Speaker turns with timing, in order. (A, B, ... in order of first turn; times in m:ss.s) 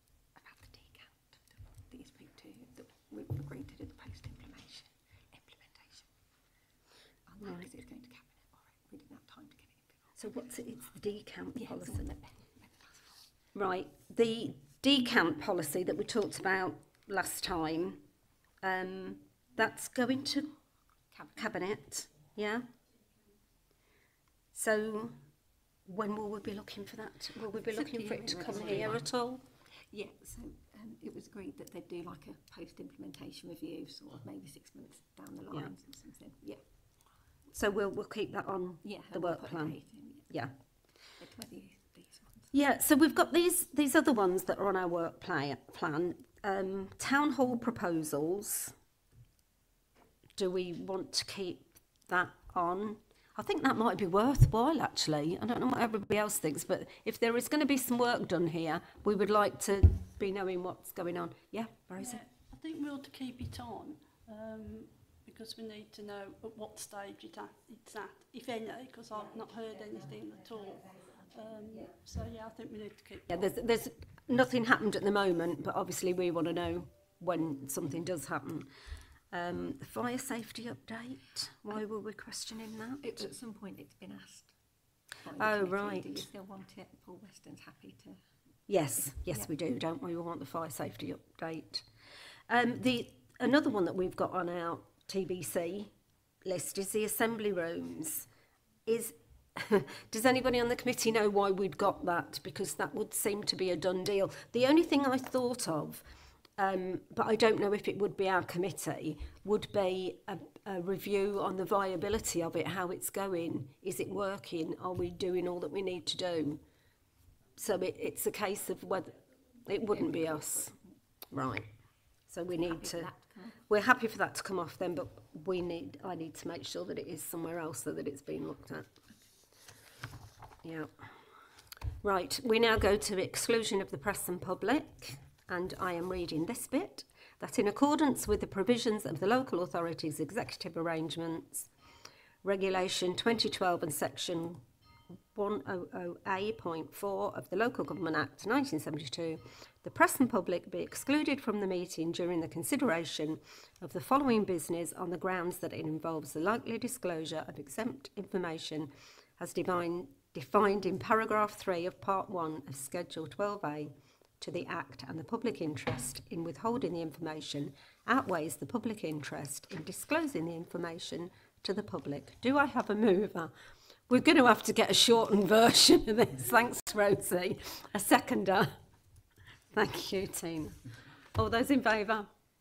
0:00.4-0:06.1 A
0:07.3-0:10.6 A
0:07.4-0:07.7 B
0:10.2-0:12.1 B
0:11.6-0:13.2 A
0:13.5-0:18.0 B
0:18.6-0:20.5 B
0:21.1-0:21.5 A
0:21.4-0:22.7 B
0:24.5-0:25.2 B
0:25.9-0:29.4 B
0:27.6-0:29.1 A
0:29.9-0:36.6 A
0:37.5-0:40.5 B
0:38.8-0:40.3 A
0:41.1-0:42.5 A
0:42.5-0:48.7 B
0:50.4-1:02.2 B
1:02.0-1:13.5 C
1:13.3-1:18.7 B
1:19.3-1:23.3 B
1:23.0-1:24.5 A
1:25.2-1:28.2 A
1:25.4-1:26.3 B
1:28.7-1:31.9 B
1:28.9-1:29.5 A
1:32.5-1:35.9 B
1:36.4-1:38.3 B
1:38.9-1:46.0 B
1:46.6-1:56.6 B
1:57.6-2:00.8 B
1:59.9-2:00.7 A
2:01.3-2:01.7 B
2:02.3-2:03.1 B
2:02.5-2:03.6 A
2:03.7-2:08.9 B
2:10.6-2:10.9 B
2:12.0-2:21.7 B
2:22.4-2:24.6 B
2:25.3-2:53.5 B
2:54.1-2:58.8 B
2:59.7-3:00.8 B
3:01.3-3:02.3 B